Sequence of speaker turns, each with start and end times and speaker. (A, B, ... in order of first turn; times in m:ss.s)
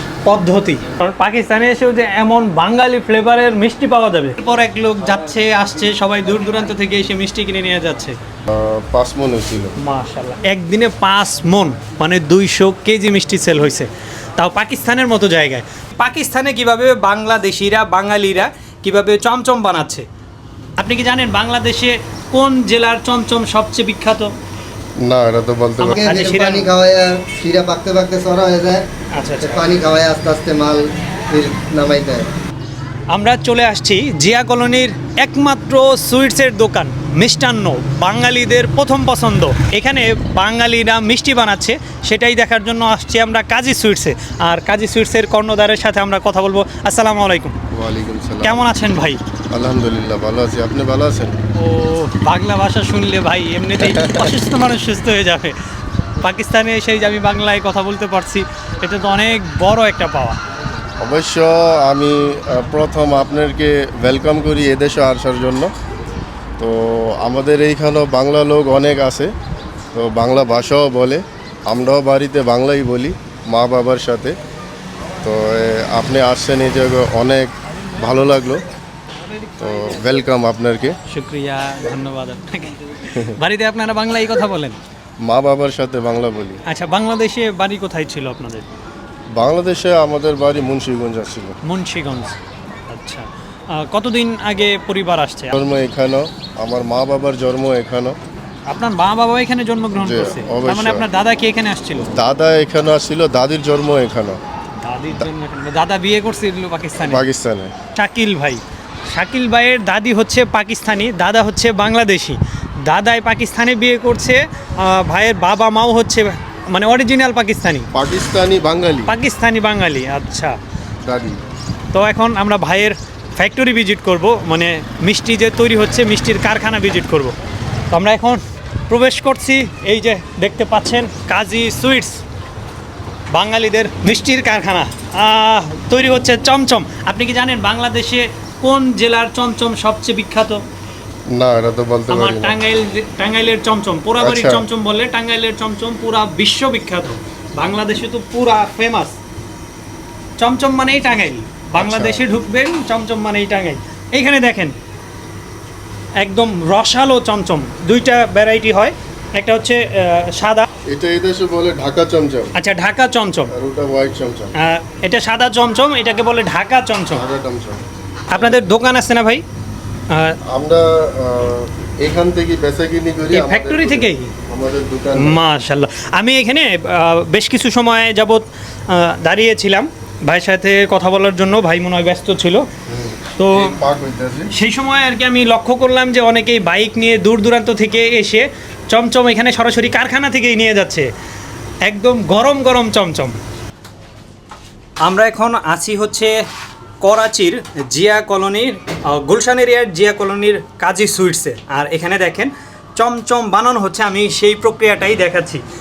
0:00.2-0:08.2 A
0:08.5-0:09.8 B
0:09.8-0:20.0 A
0:20.8-0:24.3 A
0:25.0-0:26.0 B
0:25.8-0:26.7 A
0:25.9-0:28.8 C
0:29.1-0:29.7 A
0:29.4-0:32.3 C
0:33.1-0:47.6 A
0:47.7-0:48.6 B
0:48.4-0:49.2 A
0:49.5-0:51.4 B
0:51.6-0:55.6 A
0:53.8-0:54.3 B
0:56.2-1:00.4 A
1:01.0-1:05.7 B
1:06.6-1:09.3 B
1:09.9-1:14.4 B
1:15.2-1:18.6 B
1:19.2-1:20.0 A
1:19.6-1:21.0 B
1:21.1-1:24.8 A
1:25.2-1:26.6 B
1:26.7-1:28.6 A
1:29.3-1:31.6 B
1:31.6-1:35.5 A
1:35.5-1:38.2 B
1:38.7-1:42.1 A
1:40.0-1:41.0 B
1:42.1-1:44.4 B
1:44.8-1:47.2 A
1:47.0-1:47.7 B
1:47.9-1:57.9 A
1:57.9-1:59.1 B
1:59.1-2:00.6 A
2:01.0-2:01.4 B
2:01.9-2:07.3 A
2:07.9-2:12.2 A
2:13.3-2:20.6 A
2:21.3-2:22.6 B
2:22.1-2:29.2 A
2:24.2-2:24.6 B
2:30.4-2:34.7 A
2:31.7-2:32.2 B
2:36.2-2:40.7 A
2:40.8-2:42.5 B
2:42.5-2:43.5 A
2:43.5-2:44.5 B
2:44.6-2:47.2 A
2:47.1-2:47.8 B
2:48.3-2:49.4 A
2:50.1-2:50.4 A
2:50.4-2:55.4 B
2:53.3-2:54.3 A
2:55.2-3:02.6 A
3:02.9-3:04.5 B
3:03.3-3:03.8 A
3:04.5-3:11.1 A
3:11.8-3:13.4 A
3:15.0-3:16.3 A
3:17.0-3:25.6 A